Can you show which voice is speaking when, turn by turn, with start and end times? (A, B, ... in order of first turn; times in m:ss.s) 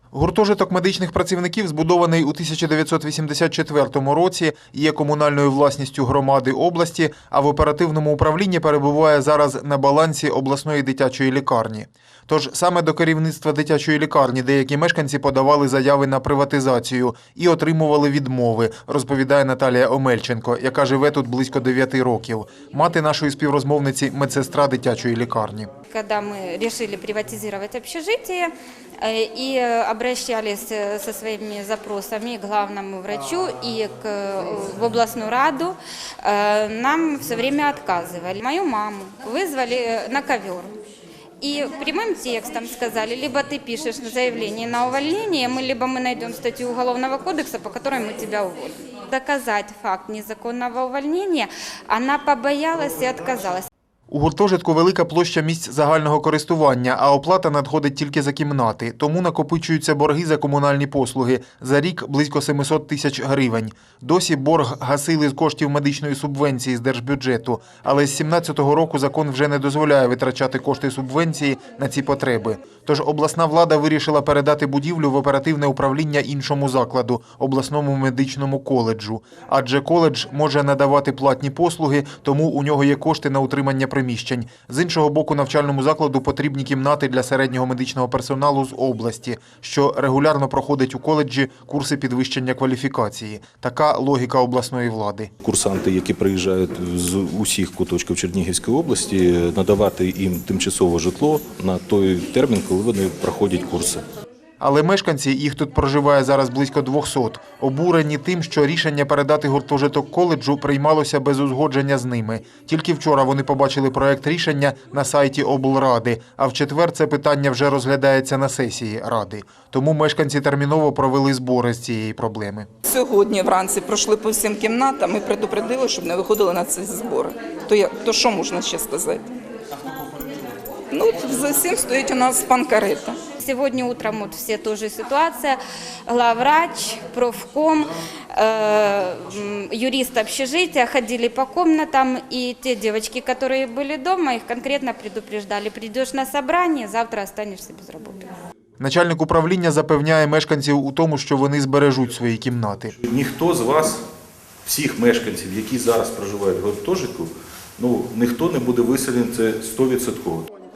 0:00.1-0:25.7 A
0:25.9-0:28.5 B
0:29.0-0:40.7 B
0:41.4-0:53.6 B
0:54.1-1:35.3 A
1:35.4-1:44.0 C
1:44.6-2:02.7 A
2:02.8-2:09.3 D
2:10.9-2:13.2 D
2:13.4-2:15.5 B
2:16.1-2:28.2 B
2:28.8-2:33.0 A
2:33.0-2:34.0 C
2:34.6-2:40.5 C